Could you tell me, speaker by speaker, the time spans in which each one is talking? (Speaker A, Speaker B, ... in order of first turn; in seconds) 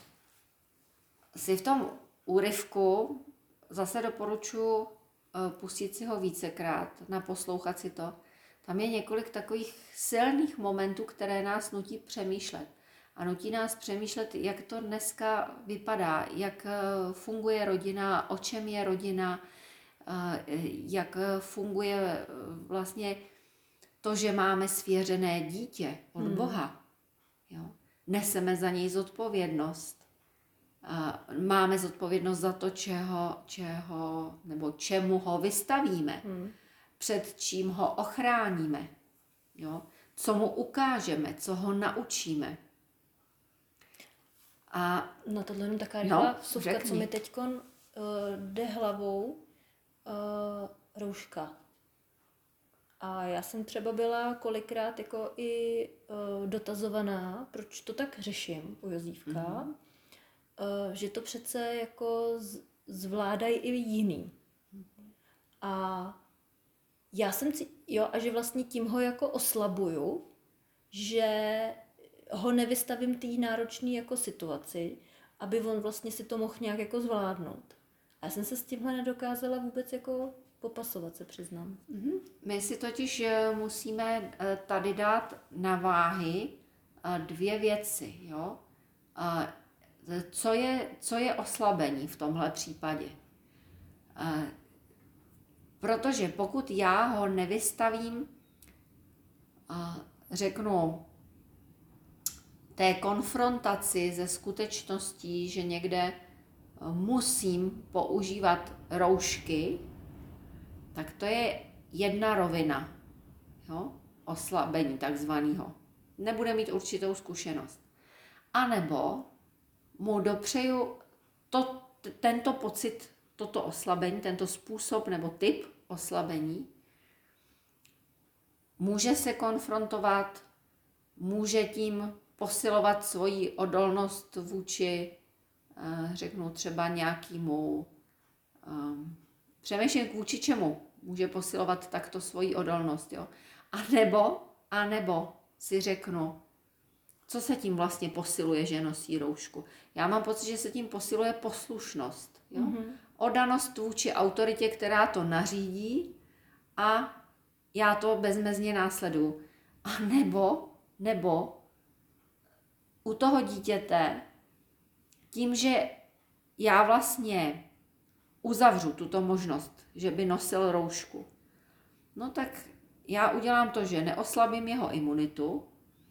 Speaker A: 1.3-19.4, 20.0-23.2, 24.0-26.8, 27.5-30.0, 30.8-36.2, 37.0-38.9, 39.5-42.6, 44.7-45.1, 46.0-47.1, 59.3-59.7, 81.9-88.6, 89.2-93.2, 94.1-94.5, 95.8-98.3, 99.7-101.1, 102.7-106.2, 106.8-109.9, 110.9-112.9, 113.6-117.8, 118.5-119.3, 120.0-126.7, 128.8-130.4, 131.2-135.2, 135.8-137.9, 138.6-146.4, 147.3-156.2, 156.8-157.2, 157.7-161.6, 163.0-164.2, 165.3-166.0, 166.6-167.7, 168.4-171.3, 172.1-175.7
Speaker B: 26.2-26.6, 36.2-36.5, 45.2-49.4, 50.0-51.5, 53.0-59.7, 60.6-64.3, 65.6-66.2, 67.1-70.3, 70.9-81.8, 152.5-153.0